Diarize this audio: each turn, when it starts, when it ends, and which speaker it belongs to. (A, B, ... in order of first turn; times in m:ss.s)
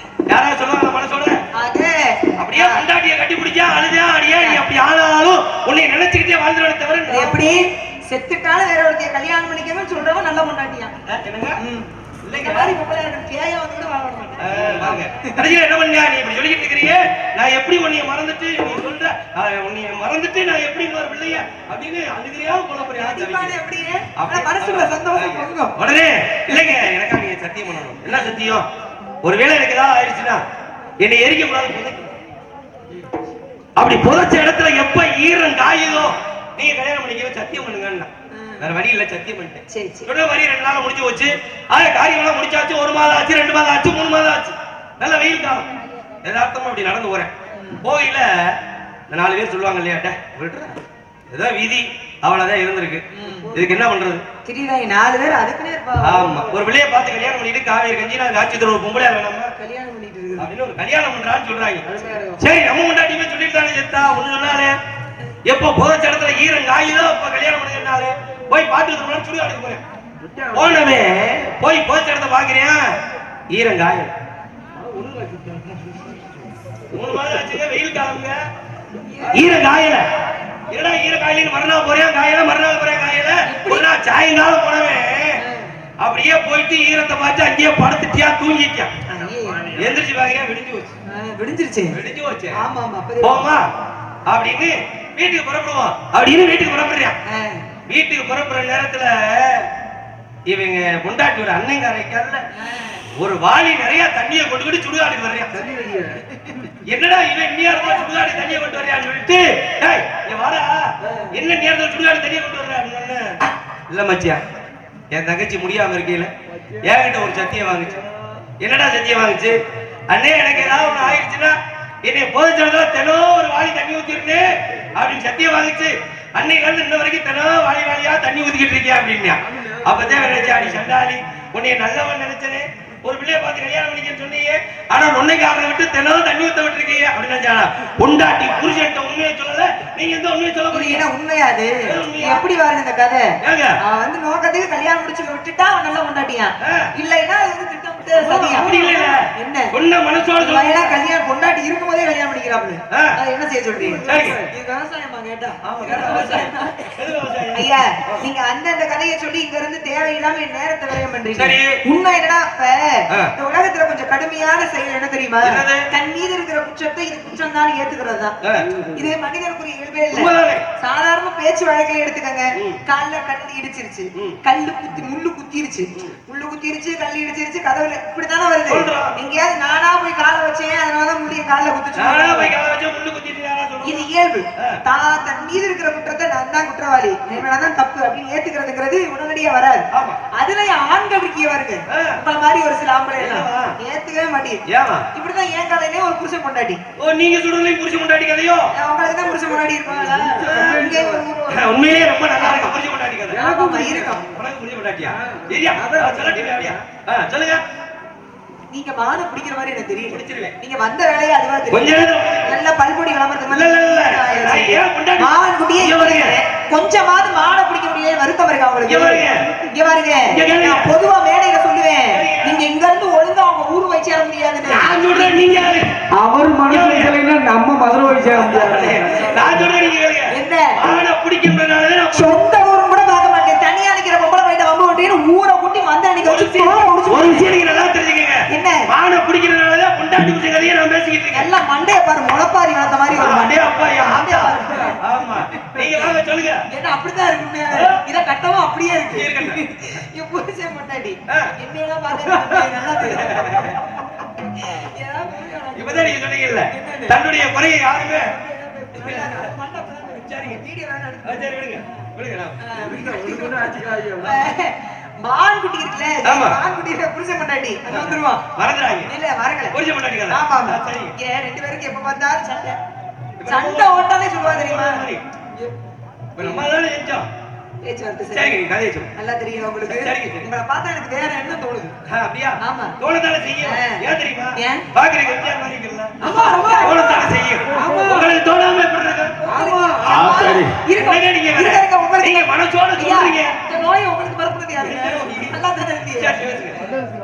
0:00.3-0:01.4 A
0:01.5-0:02.8 B
0:02.4-0:07.4 A
0:04.4-0:04.6 B
0:07.1-0:10.9 B
0:11.1-0:11.6 A
0:11.6-0:15.4 B
0:12.2-0:12.8 A
0:14.4-0:23.6 A
0:23.0-0:25.8 B
0:24.2-0:28.7 A
0:29.2-0:30.4 A
0:31.0-0:32.1 A
0:33.8-0:45.7 A
0:38.3-0:38.7 B
0:39.7-0:40.1 B
0:46.2-0:47.3 A
0:47.6-0:47.8 B
0:47.8-0:54.2 A
0:53.1-0:53.7 B
0:54.4-0:56.4 B
0:56.0-0:59.5 A
0:59.6-1:00.5 B
1:00.4-1:04.8 A
1:01.9-1:02.4 C
1:01.9-1:02.2 B
1:05.5-1:09.8 A
1:10.2-1:10.8 C
1:10.5-1:12.9 A
1:13.5-1:14.1 A
1:14.8-1:15.9 C
1:16.9-1:18.5 A
1:19.0-1:19.6 B
1:19.3-1:20.1 A
1:20.7-1:25.4 A
1:23.4-1:23.9 B
1:25.4-1:25.8 B
1:26.0-1:28.9 A
1:29.1-1:29.8 B
1:29.7-1:31.0 A
1:31.1-1:32.0 B
1:31.9-1:32.6 A
1:32.6-1:33.5 B
1:33.2-1:33.7 A
1:34.3-1:37.2 A
1:37.3-1:37.7 B
1:37.9-1:39.7 A
1:40.5-1:42.5 A
1:42.6-1:43.0 B
1:43.1-1:45.6 A
1:45.6-1:46.2 C
1:45.6-1:46.7 B
1:46.8-1:54.4 A
1:55.1-1:58.0 A
1:58.6-2:21.1 A
2:09.6-2:10.9 C
2:20.7-2:29.8 B
2:21.8-2:22.5 A
2:23.4-2:23.8 A
2:26.6-2:26.9 A
2:28.1-2:31.0 A
2:30.4-2:36.9 B
2:33.8-2:34.5 C
2:34.0-2:34.4 A
2:35.6-2:38.3 A
2:37.5-2:48.4 B
2:41.4-2:41.8 A
2:45.4-2:45.9 A
2:48.4-2:48.7 A
2:48.6-2:49.1 C
2:48.9-3:02.6 B
2:50.1-2:50.6 A
2:58.7-2:59.2 A
3:02.0-3:04.8 A
3:03.8-3:14.6 B
3:09.9-3:10.2 A
3:11.9-3:12.2 A
3:13.2-3:13.8 A
3:14.7-3:15.1 A
3:15.1-3:16.8 B
3:17.0-3:18.7 A
3:18.7-3:21.7 B
3:20.0-3:21.2 C
3:20.4-3:20.8 A
3:21.5-3:23.4 A
3:22.3-3:22.8 B
3:23.3-3:24.3 B
3:23.3-3:24.2 C
3:24.2-3:27.6 A
3:25.1-3:26.8 C
3:28.7-3:45.9 B
3:30.1-3:30.6 A
3:31.7-3:32.6 A
3:33.5-3:36.4 A
3:38.9-3:39.4 A
3:40.2-3:41.0 A
3:42.1-3:42.7 A
3:44.7-3:46.0 A
3:46.1-3:49.5 C
3:46.7-3:47.2 A
3:48.3-3:52.4 A
3:50.3-3:50.8 B
3:52.1-3:57.5 B
3:56.2-4:01.5 A
3:58.5-3:58.9 B
4:01.3-4:05.0 B
4:03.1-4:06.6 A
4:05.6-4:06.1 B
4:06.7-4:13.8 B
4:07.7-4:08.0 A
4:09.1-4:09.6 A
4:11.3-4:11.5 A
4:12.1-4:13.8 A
4:14.4-4:17.2 B
4:15.8-4:18.3 A
4:18.2-4:21.5 B
4:19.0-4:20.6 A
4:21.2-4:22.6 A
4:22.6-4:28.4 B
4:22.8-4:24.5 C
4:26.2-4:26.6 A
4:27.9-4:29.1 A
4:29.1-4:29.8 B
4:29.7-4:31.2 A
4:30.3-4:32.8 B
4:33.4-4:35.2 A
4:33.4-4:35.1 B
4:36.4-4:36.7 B
4:36.4-4:37.3 A
4:37.8-4:38.6 B
4:38.3-4:39.1 A
4:39.2-4:42.0 B
4:39.8-4:40.5 A
4:42.1-4:49.4 A
4:42.6-4:43.0 B
4:43.6-4:44.0 B
4:44.6-4:44.9 B
4:46.2-4:47.4 B
4:47.7-4:48.3 C
4:49.4-4:56.4 B
4:49.5-4:50.7 C
4:50.0-4:53.6 A
4:54.8-4:55.6 A
4:56.2-4:56.9 A